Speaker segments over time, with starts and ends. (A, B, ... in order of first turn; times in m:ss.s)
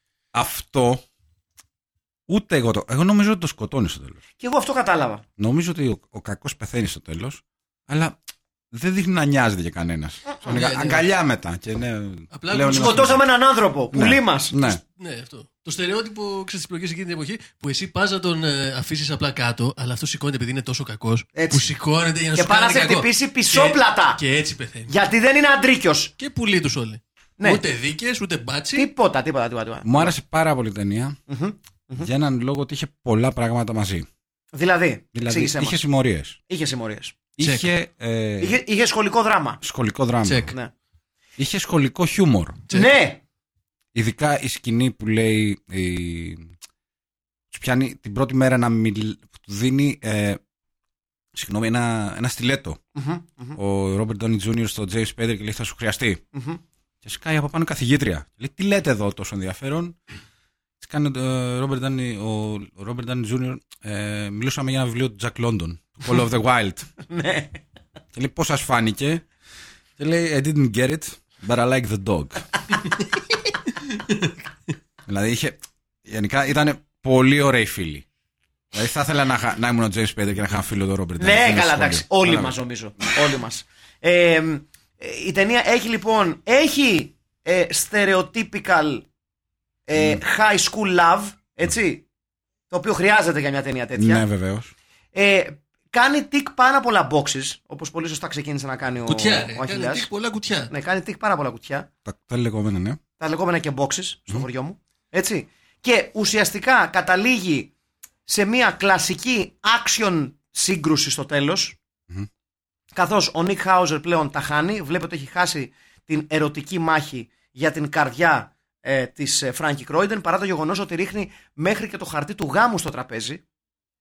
0:00.3-0:01.0 A
0:02.3-0:04.2 A
0:04.4-0:05.2 B
0:05.4-0:08.2 A
0:08.7-0:13.2 A
0:10.4-0:11.0 C
0:12.3-0:13.2 C
0:12.7-0:14.6 B
0:13.9-0:14.8 A
0:15.0-0:24.9 C
0:21.3-0:21.7 B
0:22.3-0:24.2 B
0:24.9-0:26.1 B
0:26.2-0:28.9 C
0:28.7-0:30.1 B
0:29.8-0:31.2 A
0:31.3-0:32.1 B
0:32.0-0:34.1 A
0:34.5-0:35.8 B
0:35.1-0:36.4 A
0:36.5-0:37.2 B
0:37.4-0:38.6 A
0:37.4-0:37.7 C
0:38.4-0:39.6 B
0:39.6-0:40.5 A
0:40.2-0:40.5 C
0:41.4-0:42.6 A
0:42.7-0:43.2 B
0:43.9-0:46.5 A
0:47.5-0:50.4 A
0:51.3-0:52.8 A
0:52.9-0:53.6 B
0:53.6-0:56.2 A
0:56.3-0:56.6 B
0:57.0-1:00.0 A
1:00.8-1:06.9 A
1:07.0-1:07.6 B
1:08.1-1:09.2 A
1:10.0-1:12.6 A
1:15.1-1:18.0 A
1:18.7-1:22.5 A
1:21.2-1:29.0 B
1:29.9-1:32.0 B
1:32.7-1:34.2 B
1:34.0-1:34.7 A
1:35.1-1:40.1 B
1:39.0-1:40.7 C
1:40.7-1:41.9 B
1:42.0-1:43.0 A
1:43.2-1:47.7 B
1:48.2-1:51.8 B
1:52.9-2:03.4 B